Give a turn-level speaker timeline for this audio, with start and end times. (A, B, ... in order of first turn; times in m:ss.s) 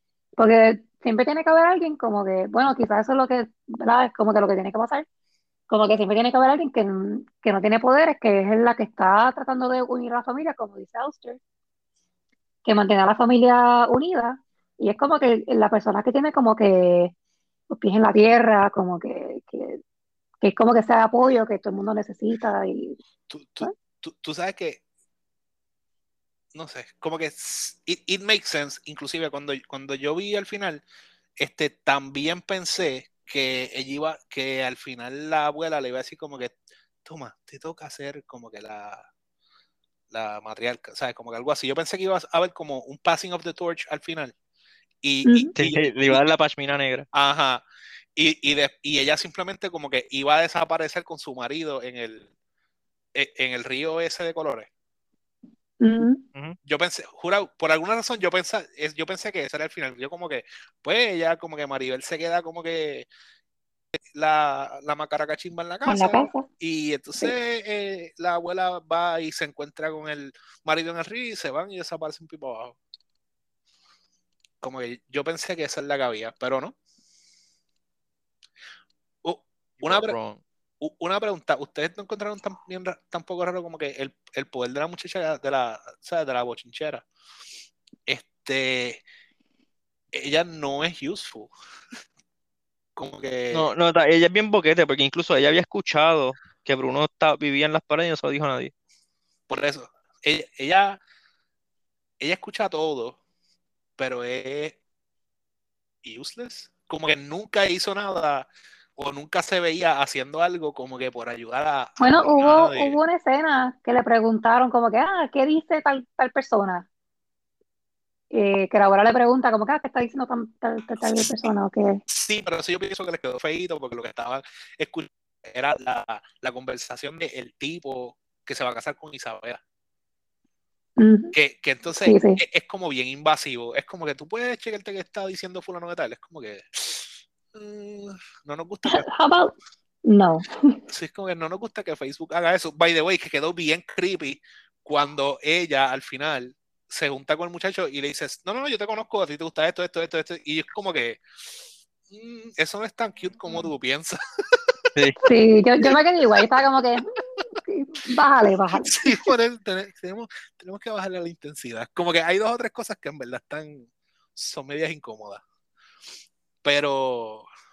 0:00.4-0:05.0 A
0:05.7-0:11.4 A
0:12.6-0:17.1 A
0:17.7-0:19.8 A
0:20.4-0:23.0 A
0:23.3-0:24.8 B
0:26.5-0:30.8 B
0:31.4-0:39.1 B
0:40.1-0:44.3 B
0:45.0-0:46.2 B
0:45.6-0:47.0 C
0:47.1-0:52.3 B
0:53.1-0:54.7 B
0:55.8-0:56.2 A
0:56.6-1:03.1 B
1:04.1-1:12.8 B
1:05.8-1:06.5 A
1:14.6-1:16.8 B
1:19.2-1:20.2 B
1:19.8-1:20.4 C
1:20.8-1:27.0 B
1:28.1-1:29.0 B
1:30.1-1:31.5 B
1:33.0-1:33.7 B
1:33.5-1:38.7 C
1:39.5-1:41.0 B
1:42.2-1:43.2 B
1:44.0-1:44.8 B
1:46.0-1:53.0 B
1:52.0-1:56.9 A
1:58.3-2:02.0 A
2:02.1-2:09.6 B
2:11.0-2:11.3 A
2:11.3-2:19.1 B
2:12.0-2:12.4 A
2:18.8-2:19.5 A
2:20.1-2:20.8 A
2:20.9-2:31.2 B
2:32.1-2:34.8 B
2:35.2-2:39.3 A
2:38.8-2:45.4 B
2:46.6-2:47.5 B